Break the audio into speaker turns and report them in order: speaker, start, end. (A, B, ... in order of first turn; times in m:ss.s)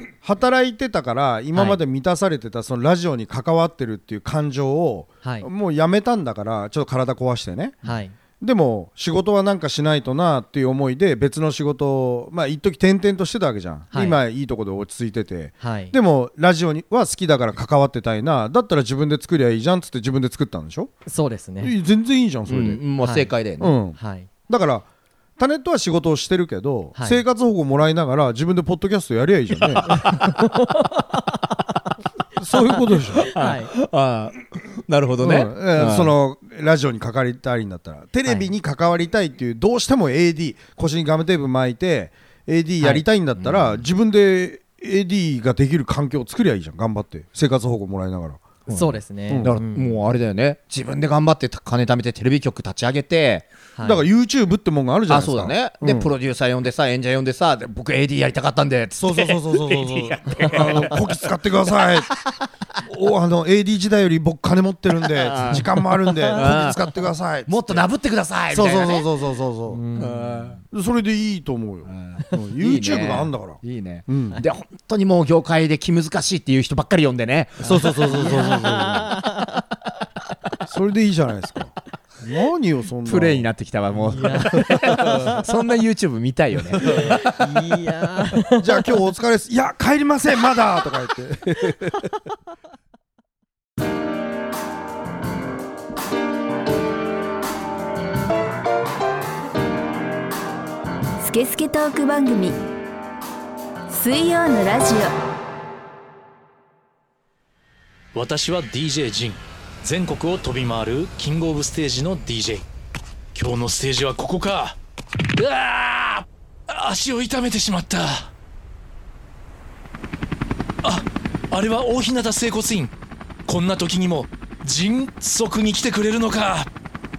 0:00.2-0:20.9 A
0:01.5-0:01.8 B
0:05.2-0:05.5 B
0:07.8-0:08.2 B
0:13.9-0:14.2 B
0:15.6-0:16.0 B
0:21.1-0:21.7 B
0:21.6-0:22.8 A
0:22.5-0:23.7 C
0:23.0-0:23.3 B
0:23.6-0:24.9 A
0:24.0-0:24.3 B
0:25.4-0:30.1 A
0:27.0-0:27.2 B
0:29.7-0:30.3 C
0:29.9-0:31.4 B
0:32.4-0:33.3 A
0:33.2-0:33.7 B
0:33.3-0:36.1 C
0:35.2-0:48.5 A
0:43.4-0:43.8 C
0:48.7-0:53.5 C
0:48.7-0:50.0 B
0:49.3-0:49.5 A
0:53.8-0:54.0 B
0:53.8-0:56.1 A
0:55.1-1:01.3 C
0:59.0-1:02.1 A
1:00.3-1:00.7 B
1:01.8-1:02.4 C
1:02.8-1:07.8 A
1:05.0-1:05.7 C
1:05.5-1:06.6 B
1:06.3-1:06.8 C
1:07.5-1:09.1 C
1:08.5-1:09.8 A
1:09.7-1:10.6 B
1:10.0-1:10.6 C
1:10.7-1:14.4 A
1:11.9-1:18.2 C
1:17.6-1:19.2 A
1:17.6-1:19.6 B
1:20.7-1:23.5 A
1:23.0-1:27.4 C
1:24.1-1:25.5 B
1:24.6-1:25.4 A
1:26.8-1:28.9 B
1:26.9-1:27.1 A
1:28.6-1:32.0 A
1:41.2-1:42.6 D
1:43.9-1:45.1 D
1:48.1-1:52.6 E
1:53.3-1:54.8 E
1:55.3-1:58.3 E
2:00.8-2:02.9 E
2:03.5-2:06.7 E